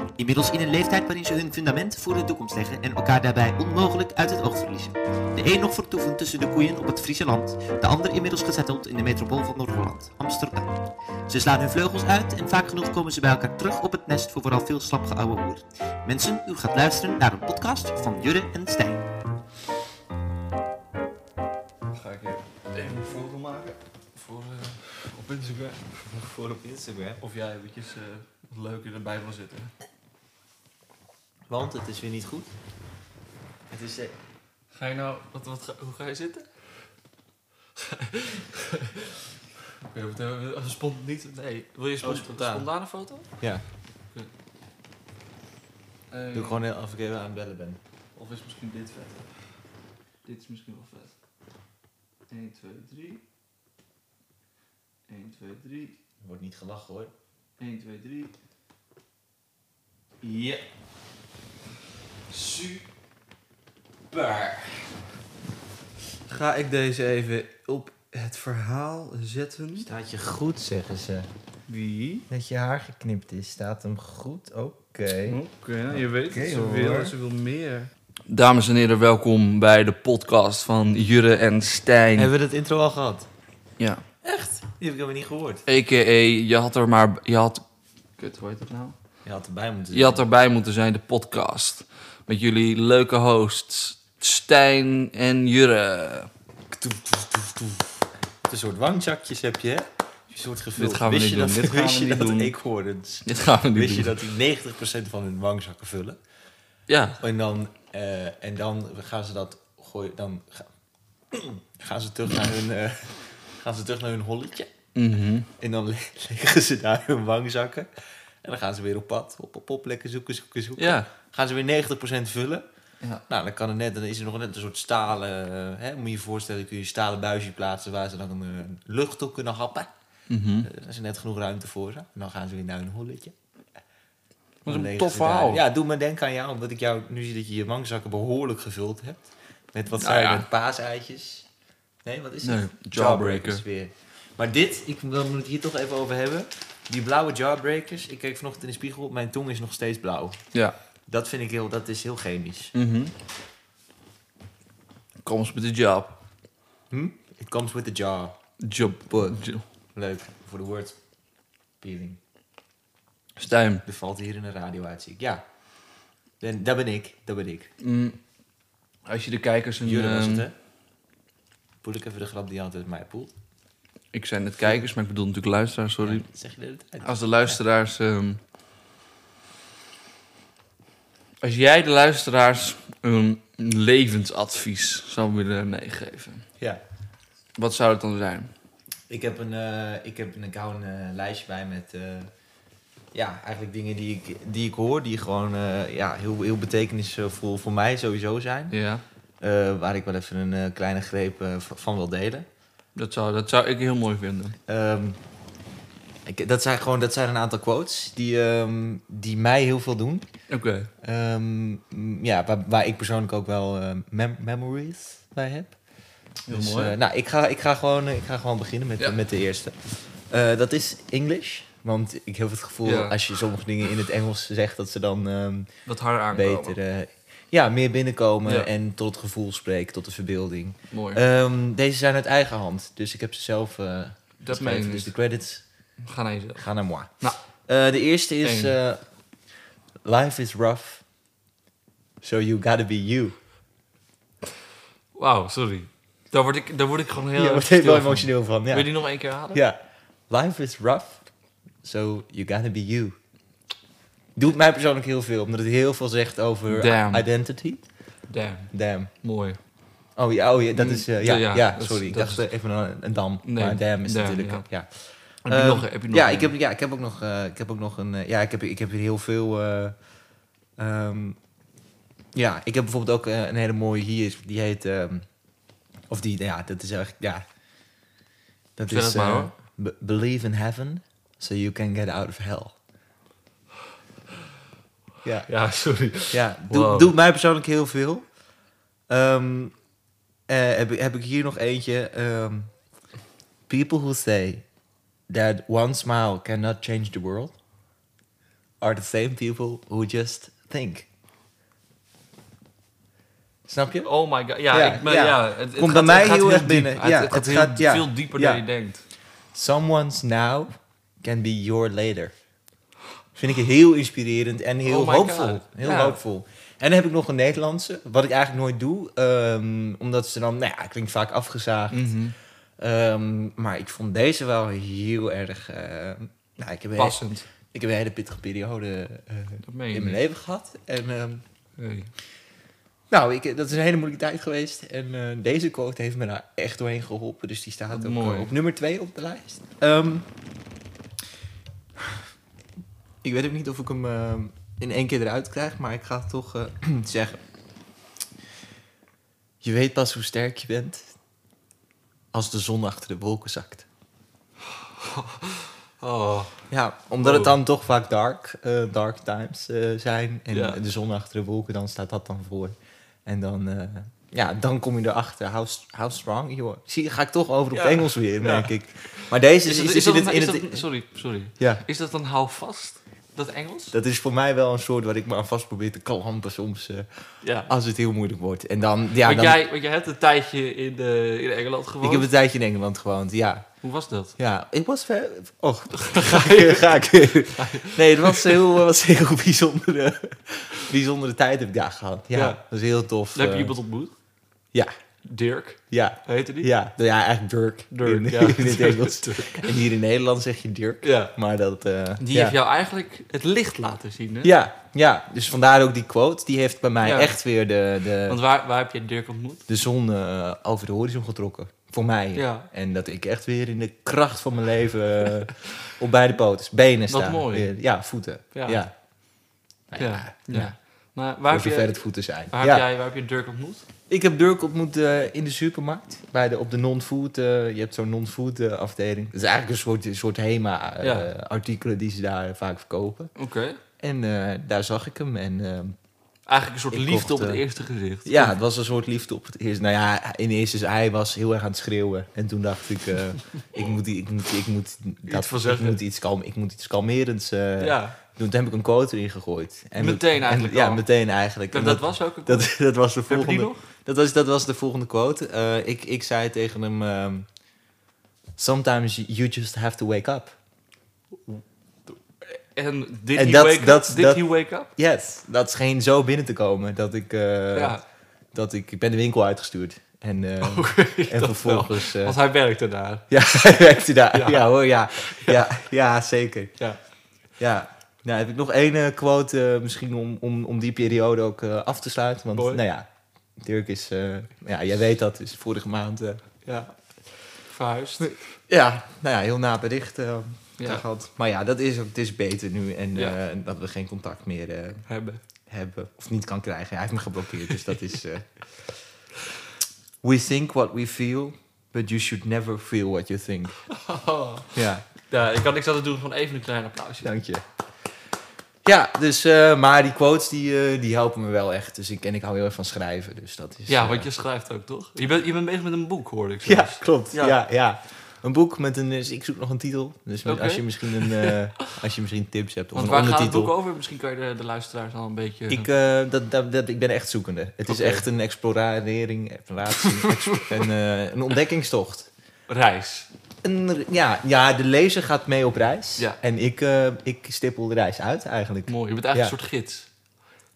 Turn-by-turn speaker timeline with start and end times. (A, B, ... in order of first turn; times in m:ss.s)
0:00.2-0:10.7 A
0:11.3-0:19.0 A
0:21.9-0:25.9 B
0:26.0-0:27.2 C
0:27.2-0:29.7 B
0:31.5-0:32.5 C
0:33.7-0:34.1 C
0:34.7-0:36.5 B
0:37.8-0:39.2 B
0:39.8-0:43.3 B
0:42.0-0:42.7 C
0:46.1-0:46.6 B
0:46.3-0:47.8 C
0:48.2-0:49.3 B
0:50.2-0:51.1 B
0:52.3-0:53.2 B
0:55.1-0:56.0 B
0:56.2-0:57.1 C
0:57.6-0:58.3 B
1:00.2-1:00.6 B
1:02.3-1:02.8 B
1:04.1-1:04.8 C
1:06.3-1:09.9 B
1:09.8-1:11.3 C
1:11.7-1:12.3 B
1:12.3-1:15.4 C
1:15.2-1:22.3 B
1:15.9-1:17.1 C
1:22.2-1:23.3 C
1:23.8-1:24.0 B
1:24.2-1:25.6 C
1:25.6-1:27.6 B
1:28.2-1:29.0 B
1:29.2-1:30.2 C
1:29.9-1:36.3 B
1:36.7-1:46.2 C
1:40.8-1:42.5 B
1:43.2-1:44.1 B
1:46.9-1:47.2 B
1:47.2-1:50.7 C
1:51.3-1:54.7 C
1:54.9-1:55.5 B
1:55.6-1:57.9 C
1:58.4-2:02.6 C
2:00.8-2:01.1 B
2:03.3-2:09.9 C
2:10.3-2:10.7 B
2:10.6-2:13.3 C
2:14.6-2:15.6 B
2:14.6-2:21.4 C
2:20.0-2:20.4 B
2:22.0-2:30.4 C
2:22.4-2:23.6 B
2:31.1-2:32.7 C
2:32.7-2:33.1 B
2:35.2-2:36.2 B
2:36.9-2:38.4 C
2:38.6-2:39.6 B
2:38.9-2:39.4 C
2:39.9-2:41.0 C
2:41.8-2:42.2 C
2:43.4-2:43.8 B
2:43.8-2:45.4 C
2:46.4-2:47.7 C
2:47.8-2:48.2 B
2:49.0-2:50.4 B
2:49.8-2:50.5 C
2:51.8-2:53.3 C
2:54.1-2:56.2 B
2:56.0-2:57.6 C
2:57.0-2:58.4 B
3:01.4-3:06.4 B
3:07.6-3:08.5 B
3:09.1-3:12.3 C
3:13.1-3:18.7 C
3:18.7-3:19.0 B
3:19.4-3:22.5 C
3:22.9-3:24.6 B
3:24.7-3:25.2 C
3:26.2-3:30.2 C
3:30.5-3:30.9 B
3:31.0-3:35.7 C
3:36.5-3:37.0 B
3:36.5-3:45.7 C
3:42.8-3:43.2 B
3:45.8-3:46.8 B
3:46.3-3:55.6 C
3:50.9-3:51.2 B
3:54.4-3:55.1 B
3:56.0-3:56.6 B
3:56.6-3:59.0 C
3:58.4-3:58.8 B
4:00.0-4:01.0 C
4:02.2-4:03.3 C
4:05.1-4:09.6 B
4:07.3-4:08.9 C
4:09.5-4:09.8 C
4:10.3-4:11.2 C
4:11.8-4:13.2 C
4:14.4-4:17.8 C
4:16.7-4:17.3 B
4:18.3-4:18.7 B
4:18.7-4:19.1 C
4:19.2-4:19.6 B
4:20.2-4:24.9 C
4:20.7-4:22.4 B
4:23.4-4:24.6 B
4:25.4-4:26.5 B
4:25.4-4:30.0 C
4:30.8-4:31.4 C
4:32.3-4:35.2 C
4:36.1-4:37.4 C
4:38.8-4:42.8 C
4:38.8-4:39.5 B
4:45.4-4:47.1 B
4:46.3-4:48.2 C
4:49.1-4:49.7 C
4:50.5-4:52.7 C
4:53.7-4:54.6 C
4:55.3-4:57.5 C
4:58.8-5:01.1 C
5:03.7-5:04.1 C
5:04.0-5:09.0 B
5:04.7-5:08.6 C
5:09.5-5:10.7 C
5:11.2-5:12.3 C
5:13.4-5:22.1 C
5:14.8-5:16.2 B
5:21.9-5:22.4 B
5:22.8-5:31.4 C
5:27.0-5:27.4 B
5:29.6-5:30.2 B
5:31.8-5:32.1 B
5:33.1-5:40.3 C
5:37.9-5:38.6 B
5:43.2-5:47.4 C
5:49.6-5:51.1 C
5:52.3-5:53.8 C
5:55.0-5:56.5 B
5:56.7-6:02.7 C
5:57.2-5:57.5 B
6:00.5-6:00.8 B
6:03.2-6:10.8 C
6:07.7-6:13.9 B
6:11.6-6:11.8 C
6:13.9-6:17.1 C
6:17.4-6:17.7 B
6:17.6-6:19.6 C
6:19.2-6:22.3 B
6:22.0-6:23.7 C
6:23.8-6:24.3 B
6:24.4-6:33.7 C
6:26.0-6:26.8 B
6:27.5-6:28.6 B
6:32.3-6:32.6 B
6:33.3-6:34.1 B
6:35.2-6:36.7 B
6:35.9-6:42.6 C
6:37.9-6:39.7 B
6:41.0-6:41.3 B
6:42.2-6:44.5 B
6:44.4-6:48.4 C
6:47.0-6:47.4 B
6:48.2-6:49.6 B
6:49.7-6:58.9 C
6:52.3-6:52.7 B
6:57.1-6:57.7 B
6:58.5-6:58.8 B
6:59.9-7:00.7 C
7:00.0-7:03.8 B
7:01.5-7:02.8 C
7:04.1-7:13.3 C
7:11.0-7:11.3 B
7:13.4-7:13.8 B
7:14.0-7:16.0 C
7:16.5-7:18.5 B
7:16.9-7:17.6 C
7:18.2-7:37.5 C
7:25.2-7:26.0 B
7:27.8-7:28.2 B
7:30.0-7:31.0 B
7:31.7-7:32.7 B
7:33.3-7:33.8 B
7:38.6-7:40.6 C
7:41.5-7:42.1 B
7:42.7-7:44.9 B
7:43.3-7:44.4 C
7:45.0-7:48.0 C
7:47.7-7:48.0 B
7:48.5-7:52.4 C
7:50.6-7:53.3 B
7:53.3-7:56.7 C
7:54.3-7:55.6 B
7:57.6-8:03.1 C
8:02.5-8:02.8 B
8:03.6-8:06.4 C
8:06.6-8:06.9 B
8:07.6-8:08.4 B
8:08.2-8:15.0 C
8:10.8-8:11.0 B
8:15.1-8:15.4 B
8:15.7-8:18.5 C
8:20.2-8:23.8 C
8:23.9-8:24.7 B
8:24.7-8:25.0 C
8:25.3-8:27.3 B
8:27.2-8:27.6 C
8:28.8-8:34.3 C
8:33.9-8:37.6 B
8:36.6-8:43.7 C
8:40.4-8:41.6 B
8:42.9-8:45.9 B
8:45.7-8:52.3 C
8:47.9-8:48.2 B
8:50.0-8:50.8 B
8:52.7-8:53.3 B
8:53.6-8:59.5 C
8:58.9-9:00.1 B